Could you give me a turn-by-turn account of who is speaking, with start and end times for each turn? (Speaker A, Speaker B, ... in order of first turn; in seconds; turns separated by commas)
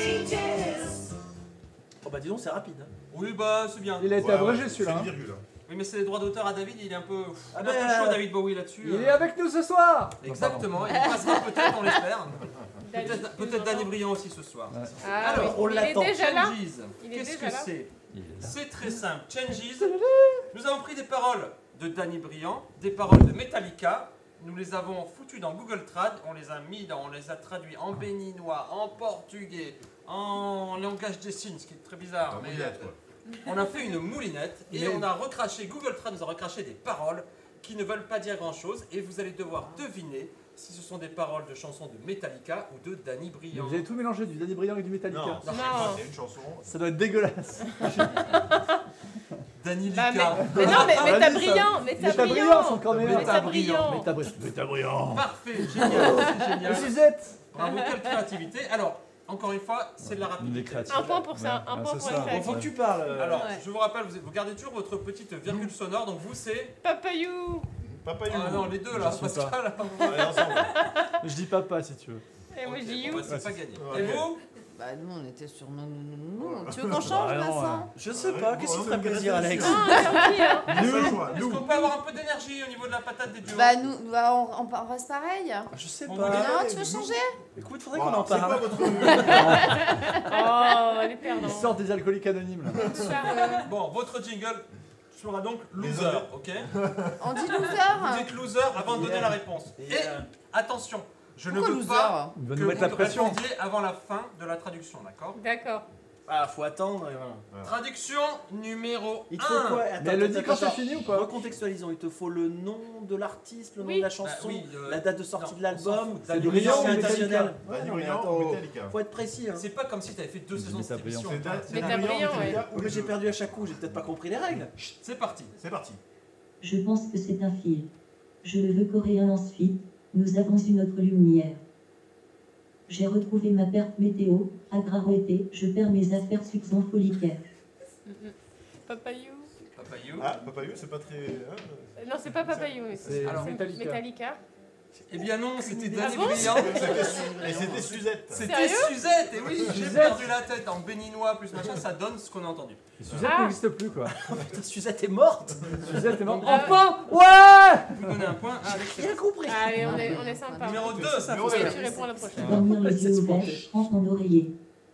Speaker A: 2.0-2.9, Speaker B: 3.1-4.3, Speaker C: 4.0-5.1, Speaker D: 4.2-5.4, Speaker B: 5.7-9.2, Speaker A: 7.5-8.3, Speaker C: 8.8-11.0, Speaker B: 10.2-19.9, Speaker E: 10.9-11.9, Speaker F: 12.8-13.9, Speaker F: 15.0-17.7, Speaker A: 15.2-16.1, Speaker C: 18.1-18.6, Speaker C: 19.8-20.4, Speaker B: 20.5-43.9, Speaker D: 32.3-33.0, Speaker C: 34.7-35.1, Speaker C: 43.5-45.4, Speaker D: 45.1-46.7, Speaker B: 45.4-46.0, Speaker F: 45.5-46.0, Speaker C: 46.6-48.4, Speaker F: 47.8-48.8, Speaker B: 49.6-51.4, Speaker F: 49.9-54.1, Speaker C: 50.4-57.4, Speaker B: 52.9-54.0, Speaker B: 55.1-57.0, Speaker B: 57.5-61.1, Speaker F: 57.6-57.9, Speaker C: 60.1-62.7, Speaker F: 60.9-62.8, Speaker A: 62.1-63.6, Speaker B: 63.0-66.8, Speaker E: 63.2-63.6, Speaker F: 66.8-67.7, Speaker D: 67.8-68.8, Speaker B: 68.3-70.6, Speaker C: 68.9-69.6, Speaker F: 70.0-71.1, Speaker D: 70.0-70.8, Speaker C: 71.2-72.2, Speaker F: 72.5-73.4, Speaker B: 72.6-74.4, Speaker C: 73.2-73.6, Speaker D: 73.7-74.3, Speaker E: 74.7-77.9, Speaker D: 76.4-77.0, Speaker C: 77.0-77.9, Speaker A: 78.0-81.3, Speaker D: 78.1-80.0, Speaker F: 79.5-80.9, Speaker E: 79.9-80.4, Speaker D: 80.7-81.7, Speaker B: 80.8-83.8, Speaker E: 83.5-87.4, Speaker A: 85.7-86.6, Speaker B: 86.1-86.6, Speaker D: 86.3-87.1, Speaker A: 87.6-89.5, Speaker D: 87.9-89.6, Speaker F: 89.2-91.8, Speaker C: 89.3-89.8, Speaker C: 91.4-92.9, Speaker F: 92.8-93.7, Speaker E: 93.1-93.7, Speaker B: 93.6-96.7, Speaker D: 95.8-97.2, Speaker E: 97.2-98.3, Speaker B: 97.8-105.4, Speaker A: 98.9-100.3, Speaker E: 101.5-102.3, Speaker C: 102.3-103.4, Speaker F: 105.3-105.9, Speaker A: 106.3-107.5, Speaker B: 107.6-109.9, Speaker A: 109.3-119.7, Speaker C: 110.0-111.3, Speaker F: 113.8-114.2, Speaker B: 114.2-117.5, Speaker C: 116.3-117.6, Speaker D: 117.6-119.0, Speaker B: 119.5-122.6, Speaker C: 120.5-121.4, Speaker D: 121.2-123.7, Speaker F: 121.7-122.7, Speaker A: 122.5-124.7, Speaker B: 125.0-125.5, Speaker D: 125.6-126.0, Speaker G: 126.6-127.9, Speaker G: 128.4-131.6, Speaker G: 132.9-137.4, Speaker F: 138.1-139.5, Speaker B: 139.8-140.3, Speaker D: 140.2-143.0, Speaker F: 142.0-144.4, Speaker C: 143.0-144.0, Speaker B: 143.2-143.6, Speaker B: 145.1-147.1, Speaker F: 145.7-147.2, Speaker A: 146.0-148.0, Speaker D: 146.4-148.5, Speaker B: 148.3-152.8, Speaker F: 148.3-149.0, Speaker C: 149.6-150.3, Speaker C: 153.0-154.1, Speaker F: 153.2-153.6, Speaker A: 154.1-156.1, Speaker C: 155.9-158.1, Speaker B: 156.3-156.8, Speaker F: 156.3-156.9, Speaker B: 157.9-159.2, Speaker A: 158.7-160.2, Speaker F: 159.4-162.7, Speaker E: 159.5-162.7, Speaker B: 160.6-161.8, Speaker D: 160.9-161.7, Speaker G: 162.3-164.6, Speaker A: 162.6-163.7